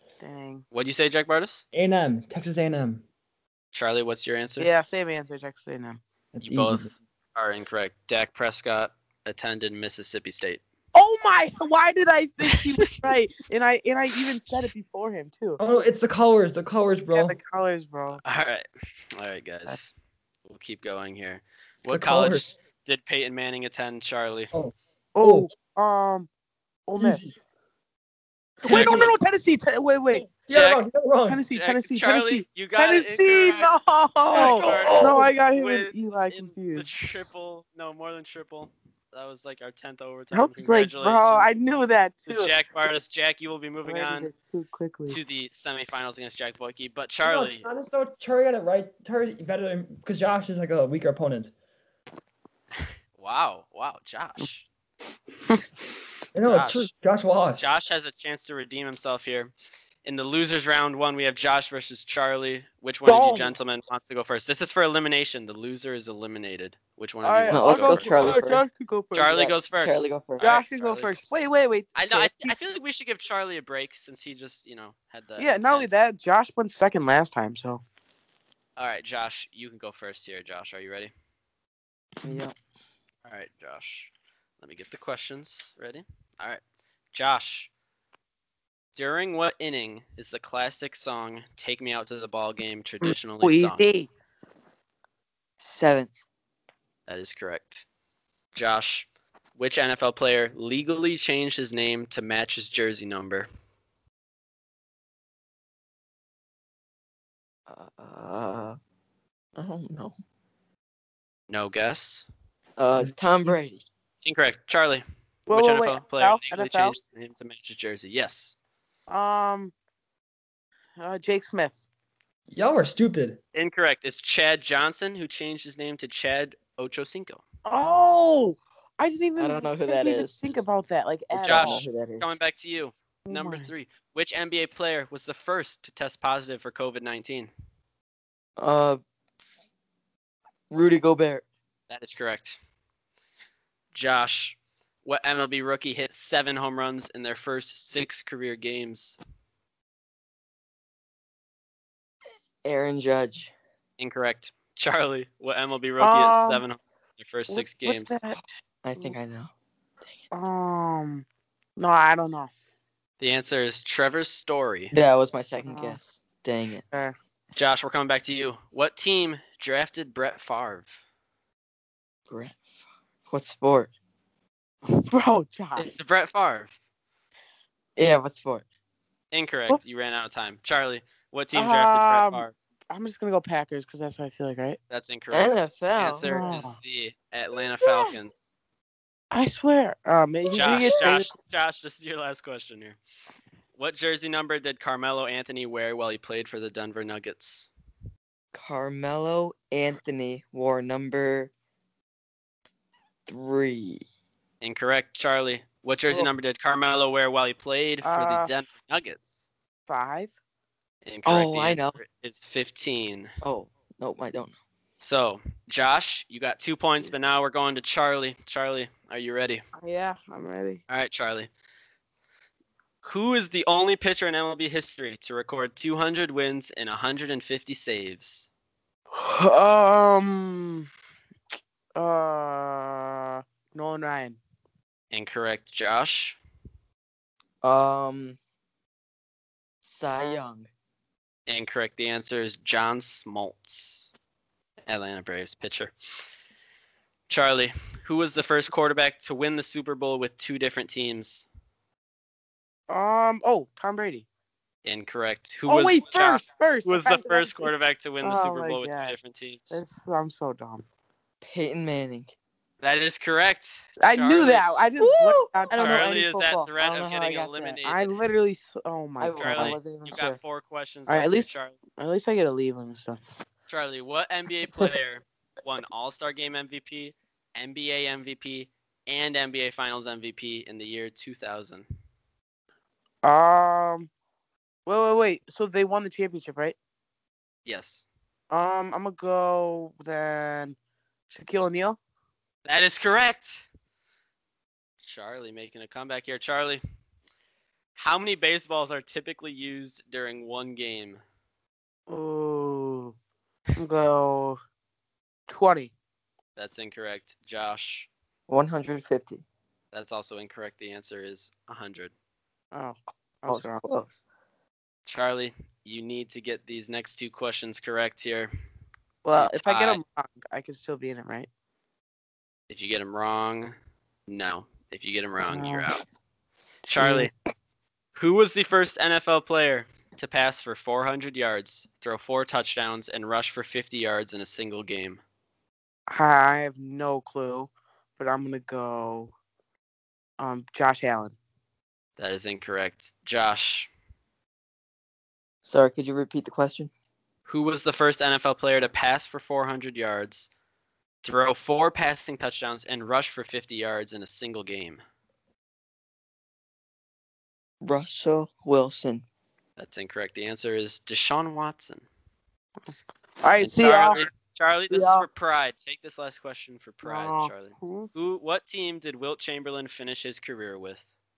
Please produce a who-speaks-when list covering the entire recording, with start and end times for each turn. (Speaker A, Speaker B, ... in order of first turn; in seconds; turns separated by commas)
Speaker A: 0.2-0.6, Speaker B: 0.7-1.6, Speaker C: 1.7-3.0, Speaker B: 3.7-4.7, Speaker A: 4.6-6.0, Speaker C: 6.3-6.9, Speaker B: 6.4-10.6, Speaker A: 10.9-15.6, Speaker C: 15.6-17.4, Speaker A: 17.1-18.2, Speaker B: 18.2-18.6, Speaker B: 19.1-19.9, Speaker B: 20.4-24.5, Speaker C: 21.9-22.5, Speaker C: 24.5-25.5, Speaker A: 25.1-26.3, Speaker A: 26.9-27.3, Speaker C: 27.0-27.3, Speaker C: 28.6-29.1, Speaker A: 28.6-30.3, Speaker B: 28.7-29.1, Speaker C: 30.3-31.4, Speaker B: 30.5-30.9, Speaker A: 31.3-36.9, Speaker B: 31.5-33.7, Speaker B: 34.3-41.5, Speaker C: 34.3-35.3, Speaker A: 40.3-42.5, Speaker B: 42.3-44.3, Speaker A: 43.8-45.2, Speaker B: 45.1-47.7, Speaker C: 47.2-51.5, Speaker B: 53.2-54.7, Speaker C: 56.3-57.6, Speaker B: 56.4-56.9, Speaker B: 57.6-59.5, Speaker B: 60.0-68.3, Speaker A: 63.0-63.5, Speaker A: 67.2-69.5, Speaker D: 67.5-68.6, Speaker B: 69.1-71.1, Speaker D: 69.3-70.5, Speaker A: 70.4-72.5, Speaker B: 71.9-76.0, Speaker A: 75.4-77.8, Speaker B: 78.8-81.1, Speaker D: 82.2-82.5, Speaker B: 83.2-86.6, Speaker B: 87.1-87.7, Speaker B: 88.9-93.8, Speaker A: 93.0-94.1, Speaker D: 95.6-96.1, Speaker B: 97.1-97.8, Speaker B: 98.5-103.5, Speaker D: 107.7-108.8, Speaker D: 109.5-110.1, Speaker B: 111.5-112.2, Speaker D: 112.8-113.8, Speaker C: 112.9-113.5, Speaker B: 114.2-118.5, Speaker A: 115.5-117.0, Speaker A: 119.1-119.7, Speaker A: 121.0-121.8, Speaker C: 122.5-123.4, Speaker B: 123.5-127.4, Speaker A: 127.6-131.9, Speaker D: 129.4-130.5, Speaker B: 131.3-137.5, Speaker D: 131.4-132.3, Speaker A: 133.3-133.7, Speaker D: 138.6-139.0, Speaker D: 140.7-141.4, Speaker B: 141.9-142.6, Speaker B: 143.9-149.2, Speaker D: 152.6-153.5, Speaker B: 154.0-158.2, Speaker A: 156.0-156.6, Speaker A: 157.5-159.2, Speaker D: 158.8-159.5, Speaker A: 160.3-161.2, Speaker A: 161.8-162.5, Speaker B: 163.2-164.9, Speaker D: 164.9-166.8, Speaker A: 165.6-166.0, Speaker B: 167.5-171.0, Speaker D: 172.3-172.6, Speaker D: 173.3-173.9, Speaker A: 174.9-175.9, Speaker B: 175.8-176.7, Speaker D: 178.0-178.6, Speaker B: 179.3-182.5, Speaker A: 181.5-184.8, Speaker B: 184.9-188.3, Speaker D: 185.3-186.7, Speaker A: 186.2-186.8, Speaker D: 187.8-188.2, Speaker A: 189.3-191.3, Speaker B: 190.5-193.0, Speaker D: 190.6-191.2, Speaker B: 193.8-197.7, Speaker D: 198.5-201.5, Speaker D: 203.3-204.0, Speaker B: 204.6-209.2, Speaker A: 208.0-208.5, Speaker A: 209.9-210.3, Speaker B: 211.0-213.3, Speaker D: 211.2-212.0, Speaker D: 213.4-214.5, Speaker B: 215.0-219.6, Speaker A: 219.7-220.8, Speaker B: 220.9-221.5, Speaker B: 223.0-228.5, Speaker A: 229.1-230.9, Speaker A: 231.9-234.4, Speaker B: 235.1-236.4, Speaker D: 237.6-238.4, Speaker D: 239.8-240.7, Speaker B: 241.5-244.1, Speaker B: 244.9-245.9, Speaker B: 247.3-251.5, Speaker A: 252.9-254.2, Speaker B: 254.8-259.8, Speaker A: 255.7-257.7, Speaker A: 258.2-259.2, Speaker A: 259.7-260.8, Speaker D: 261.4-262.3, Speaker B: 262.8-264.6, Speaker A: 264.0-266.2, Speaker D: 265.0-267.8, Speaker B: 265.7-268.2, Speaker A: 267.8-269.8, Speaker D: 269.2-270.4, Speaker B: 269.4-271.8, Speaker A: 271.1-273.2, Speaker B: 273.7-281.9, Speaker A: 283.2-284.1, Speaker A: 284.9-286.8, Speaker B: 287.6-288.1, Speaker A: 288.5-290.8, Speaker A: 291.3-292.0, Speaker B: 292.6-293.6, Speaker B: 295.0-296.8, Speaker B: 297.9-301.2, Speaker A: 302.1-303.1, Speaker A: 303.8-304.6, Speaker A: 305.5-305.9, Speaker B: 306.6-308.1, Speaker D: 308.5-309.4, Speaker B: 309.9-312.1, Speaker A: 312.7-313.8, Speaker D: 313.5-314.2, Speaker B: 315.1-318.5, Speaker A: 319.2-321.5, Speaker B: 319.3-320.0, Speaker B: 322.7-323.7, Speaker B: 324.3-326.0, Speaker A: 325.4-325.9, Speaker B: 326.9-327.3, Speaker A: 327.0-327.3, Speaker B: 328.1-335.2, Speaker A: 336.1-339.3, Speaker A: 340.4-341.3, Speaker B: 342.2-343.9, Speaker D: 345.6-346.9, Speaker B: 347.4-350.5, Speaker B: 351.2-355.0, Speaker D: 357.8-359.2, Speaker B: 359.8-362.1, Speaker A: 363.4-364.2, Speaker B: 363.6-371.1, Speaker A: 364.9-365.2, Speaker A: 367.0-368.1